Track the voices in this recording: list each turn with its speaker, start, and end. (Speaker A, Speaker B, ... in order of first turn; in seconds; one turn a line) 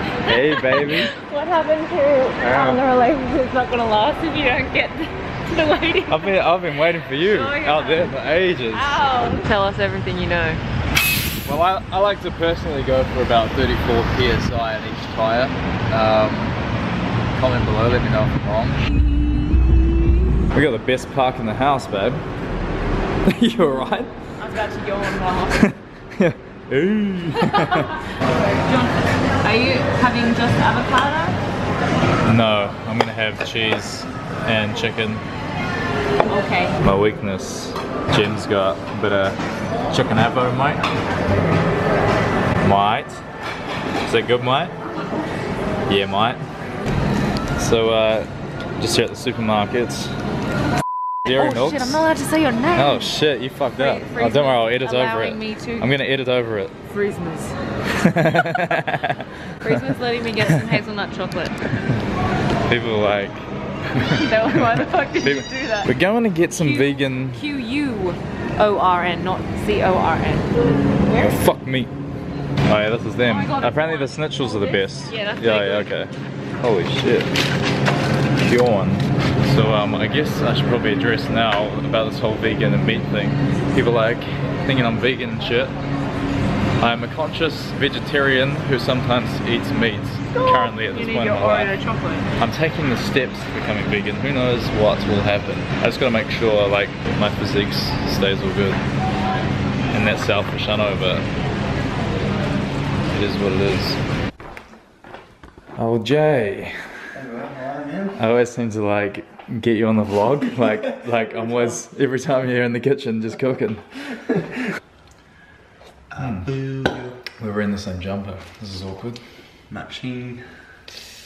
Speaker A: 0.2-1.1
Speaker B: 0.6-6.3
Speaker A: 2.4-2.8
Speaker A: 6.1-9.0
Speaker B: 7.2-10.6
Speaker A: 11.4-16.6
Speaker A: 17.3-18.8
Speaker A: 20.5-22.2
Speaker A: 23.2-24.1
Speaker B: 24.4-25.7
Speaker A: 25.5-28.0
Speaker B: 28.5-31.4
Speaker A: 32.2-35.2
Speaker B: 36.3-36.8
Speaker A: 36.8-39.4
Speaker A: 39.9-40.8
Speaker A: 42.6-43.2
Speaker A: 44.0-44.7
Speaker A: 45.9-46.4
Speaker A: 47.6-50.1
Speaker A: 51.2-52.1
Speaker B: 51.3-53.1
Speaker A: 52.7-56.7
Speaker B: 53.8-55.9
Speaker B: 56.9-57.5
Speaker A: 57.9-60.6
Speaker B: 59.6-61.6
Speaker A: 61.7-62.0
Speaker A: 62.7-67.5
Speaker B: 64.2-65.9
Speaker B: 66.6-70.5
Speaker A: 71.1-71.9
Speaker A: 72.6-77.3
Speaker B: 73.2-75.9
Speaker A: 78.4-85.7
Speaker A: 86.8-91.8
Speaker B: 90.3-92.3
Speaker A: 92.4-98.8
Speaker A: 99.9-101.2
Speaker A: 103.1-104.0
Speaker A: 105.8-107.1
Speaker C: 107.1-108.2
Speaker A: 108.2-114.2
Speaker C: 116.1-117.2
Speaker A: 116.2-116.5
Speaker A: 117.4-119.6
Speaker C: 119.7-120.8